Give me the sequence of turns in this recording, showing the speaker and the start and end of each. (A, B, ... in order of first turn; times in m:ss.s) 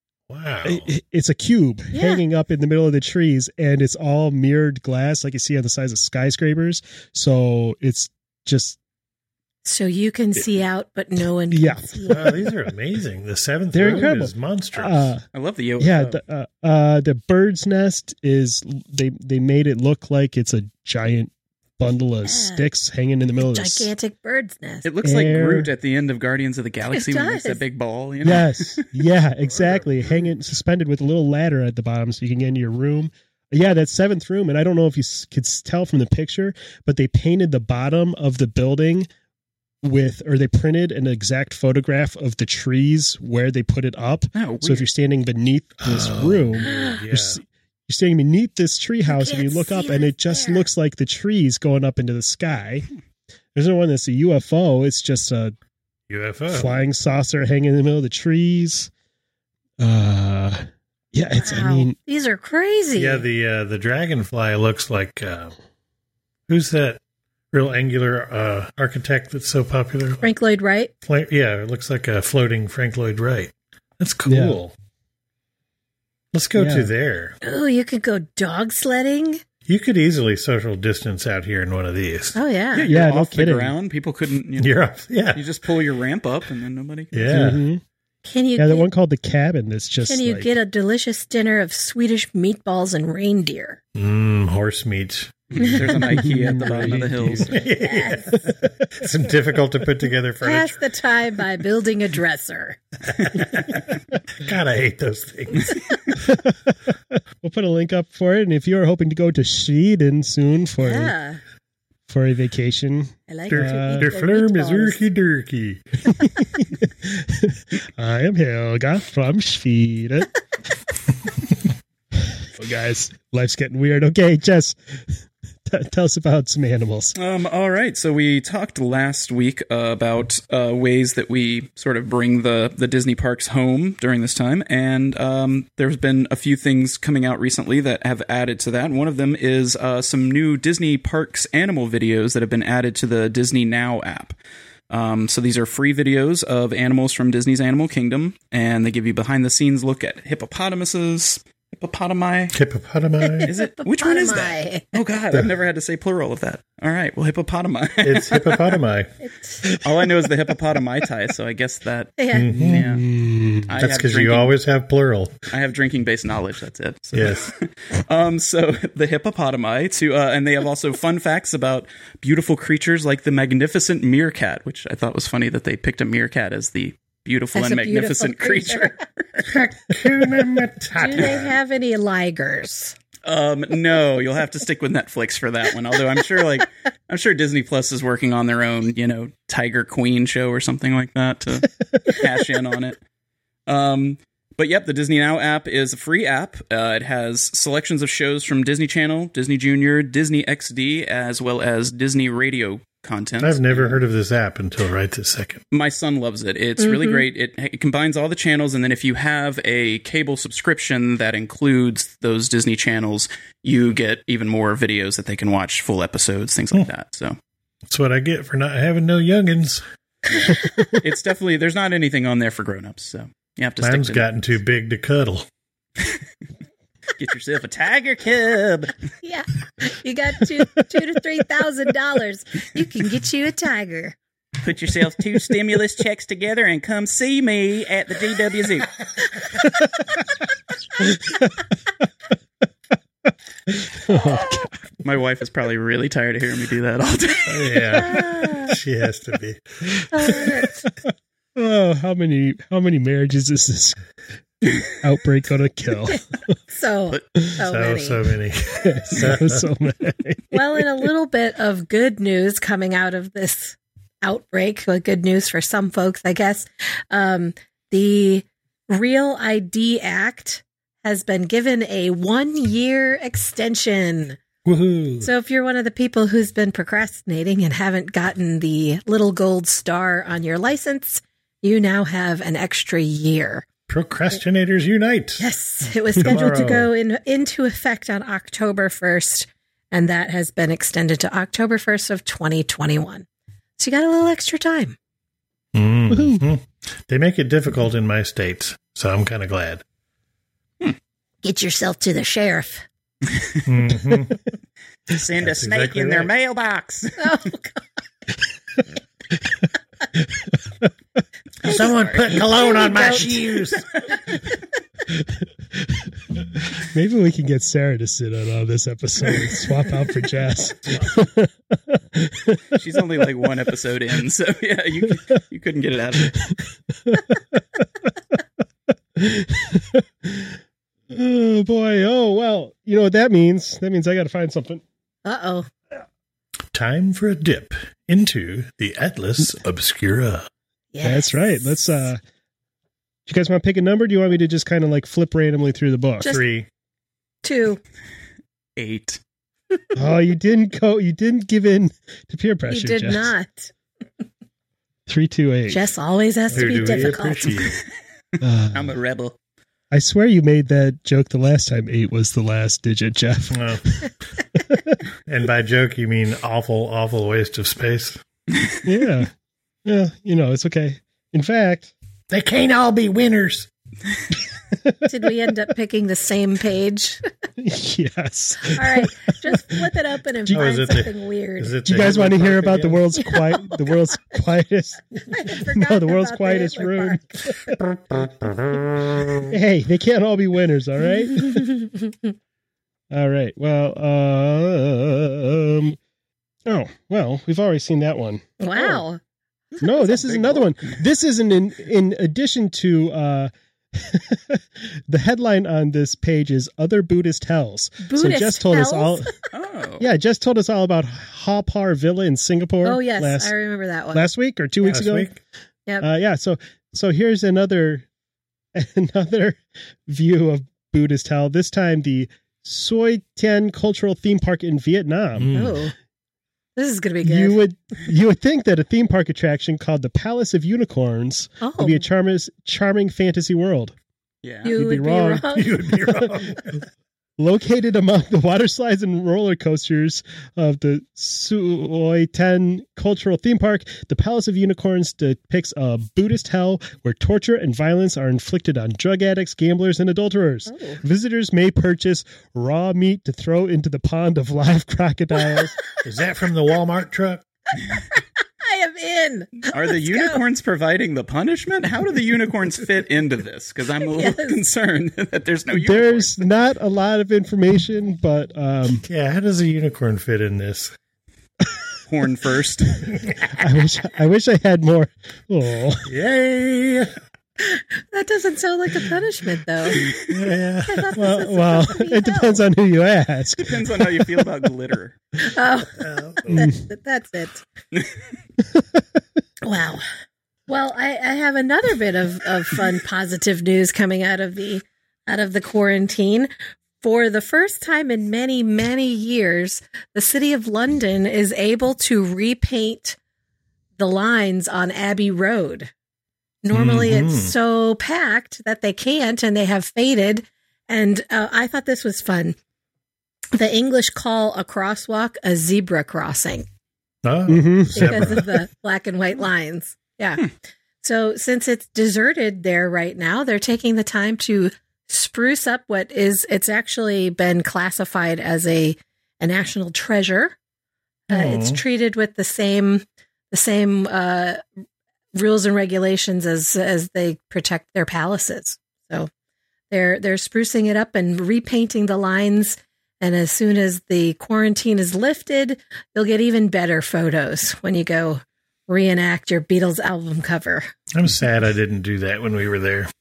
0:00.3-0:00.9 A
0:00.6-0:08.8 B
0:01.9-0:02.2 C
0:09.6-0:12.4 C
0:11.5-0:12.4 B
0:12.1-0:15.1 A
0:13.7-0:15.2 B
0:15.3-0:16.2 D
0:15.8-0:23.9 B
0:22.2-0:22.7 C
0:23.4-0:24.8 C
0:24.8-0:28.8 D
0:25.0-0:25.7 B
0:26.9-0:27.6 C
0:28.2-0:39.1 B
0:29.4-0:30.3 A
0:39.8-0:52.9 B
0:44.3-0:44.9 D
0:45.8-0:47.4 A
0:46.6-0:47.0 C
0:49.0-0:50.7 C
0:53.5-0:55.5 B
0:56.1-0:56.8 A
0:56.5-0:58.9 B
0:59.8-1:02.0 B
1:01.4-1:03.2 C
1:03.0-1:05.5 A
1:06.5-1:07.0 A
1:07.5-1:10.3 A
1:10.2-1:10.9 C
1:11.0-1:14.7 A
1:14.3-1:14.6 B
1:16.3-1:17.4 A
1:16.6-1:16.9 B
1:17.4-1:19.4 C
1:19.6-1:22.4 A
1:22.3-1:22.9 C
1:22.7-1:27.3 D
1:22.8-1:23.7 B
1:24.6-1:25.4 A
1:27.1-1:27.6 A
1:27.3-1:27.8 B
1:28.2-1:28.9 C
1:28.6-1:30.5 B
1:30.0-1:33.8 C
1:34.0-1:35.6 A
1:35.6-1:37.6 D
1:35.6-1:37.6 B
1:37.4-1:40.8 A
1:37.8-1:38.4 C
1:40.4-1:42.8 C
1:43.2-1:43.9 A
1:44.4-1:46.0 A
1:46.2-1:51.1 B
1:50.8-1:51.4 C
1:52.1-1:54.1 B
1:53.3-1:55.0 C
1:53.5-1:56.1 A
1:56.6-2:00.3 B
2:02.4-2:07.2 B
2:07.2-2:24.4 D
2:24.9-2:32.6 D
2:32.5-2:33.5 A
2:33.2-2:34.9 C
2:33.5-2:38.8 D
2:38.0-2:39.1 A
2:39.2-2:39.6 C
2:39.8-2:43.0 D
2:42.2-2:42.5 C
2:42.3-2:42.8 A
2:42.5-2:43.7 B
2:43.6-2:44.6 D
2:43.8-2:45.4 A
2:45.5-2:59.5 D
2:47.1-2:47.5 A
2:57.5-2:59.0 C
2:59.4-3:01.5 A
3:01.0-3:02.9 C
3:03.2-3:13.0 D
3:13.7-3:24.0 D
3:23.4-3:25.6 A
3:25.7-3:37.4 D
3:26.8-3:27.2 C
3:37.9-3:39.8 A
3:40.3-3:44.3 D
3:43.8-3:45.4 A
3:47.2-3:48.9 D
3:49.2-3:54.2 C
3:54.6-3:58.9 E
4:03.7-4:04.7 B
4:05.0-4:07.8 D
4:07.5-4:10.4 A
4:07.9-4:08.7 C
4:10.1-4:10.9 C
4:11.6-4:14.0 B
4:14.9-4:16.5 B
4:16.7-4:18.2 C
4:17.6-4:19.7 A
4:18.8-4:21.0 B
4:20.5-4:34.4 C
4:34.6-4:35.3 A
4:35.2-4:43.6 C
4:43.9-4:45.4 A
4:45.4-4:53.2 C
4:46.2-4:46.9 A
4:53.8-4:55.0 C
4:55.7-4:59.8 A
4:56.1-4:56.4 B
5:01.4-5:02.8 C
5:03.6-5:04.5 A
5:05.1-5:07.1 E
5:05.3-5:06.3 A
5:07.2-5:07.8 C
5:11.6-5:13.9 A
5:11.6-5:13.5 C
5:15.1-5:22.8 B
5:22.7-5:26.4 D
5:26.2-5:27.8 B
5:29.2-5:30.6 B
5:31.1-5:34.8 B
5:35.2-5:35.7 C
5:36.7-5:40.5 A
5:40.9-5:42.1 C
5:41.0-5:42.2 B
5:43.3-5:46.4 B
5:46.2-5:46.7 A
5:47.4-5:47.8 C
5:48.8-5:49.2 D
5:50.0-5:53.3 B
5:52.7-5:53.7 C
5:55.1-5:55.8 B
5:55.7-5:57.7 C
5:56.5-5:57.2 B
5:56.5-5:57.8 A
5:58.4-5:59.0 B
5:58.7-5:59.4 D
5:59.9-6:04.1 B
6:03.5-6:03.8 A
6:04.7-6:05.0 B
6:05.2-6:08.2 A
6:08.8-6:09.3 B
6:09.8-6:11.9 B
6:12.3-6:13.7 A
6:14.8-6:15.1 B
6:15.1-6:17.2 C
6:17.6-6:19.8 B
6:18.6-6:22.1 C
6:20.4-6:21.0 B
6:20.5-6:23.0 A
6:21.8-6:27.8 B
6:23.2-6:23.9 C
6:25.3-6:27.7 C
6:29.5-6:31.7 B
6:33.1-6:36.0 B
6:36.6-6:39.0 B
6:38.6-6:39.2 C
6:39.8-6:49.3 B
6:39.8-6:41.0 D
6:48.0-6:49.3 C
6:49.5-6:50.1 D
6:50.0-6:53.5 B
6:52.8-6:54.3 C
6:54.1-6:55.3 B
6:54.8-6:55.4 A
6:56.0-6:58.0 B
6:58.7-7:05.7 B
7:05.4-7:05.8 A
7:05.5-7:05.9 C
7:06.8-7:07.6 C
7:07.2-7:13.9 B
7:11.6-7:12.0 C
7:14.4-7:14.8 D
7:14.6-7:15.8 C
7:14.7-7:16.5 B
7:15.5-7:16.8 A
7:17.4-7:35.7 B
7:30.7-7:31.0 C
7:36.0-7:37.4 A
7:38.1-7:40.4 C
7:39.7-7:46.4 D
7:44.0-7:44.6 C
7:45.7-7:49.0 B
7:49.0-7:50.9 A
7:52.1-7:53.0 D
7:53.5-7:56.1 B
7:56.0-7:57.1 A
7:57.6-8:00.0 C
8:00.0-8:01.1 A
8:00.9-8:02.6 C
8:01.1-8:04.5 B
8:03.6-8:05.1 D
8:05.4-8:07.6 C
8:06.0-8:06.6 A
8:06.5-8:06.8 B
8:08.7-8:09.0 B
8:09.6-8:10.0 C
8:10.7-8:23.2 C
8:24.0-8:25.9 C
8:26.6-8:32.6 C
8:26.7-8:27.5 A
8:33.5-8:36.7 C
8:37.2-8:38.5 A
8:37.5-8:38.4 B
8:38.0-8:40.5 C
8:41.0-8:50.6 C
8:51.3-8:54.6 C
8:51.3-8:51.8 A
8:55.3-8:59.3 C
8:59.9-9:10.9 C
9:11.1-9:13.1 A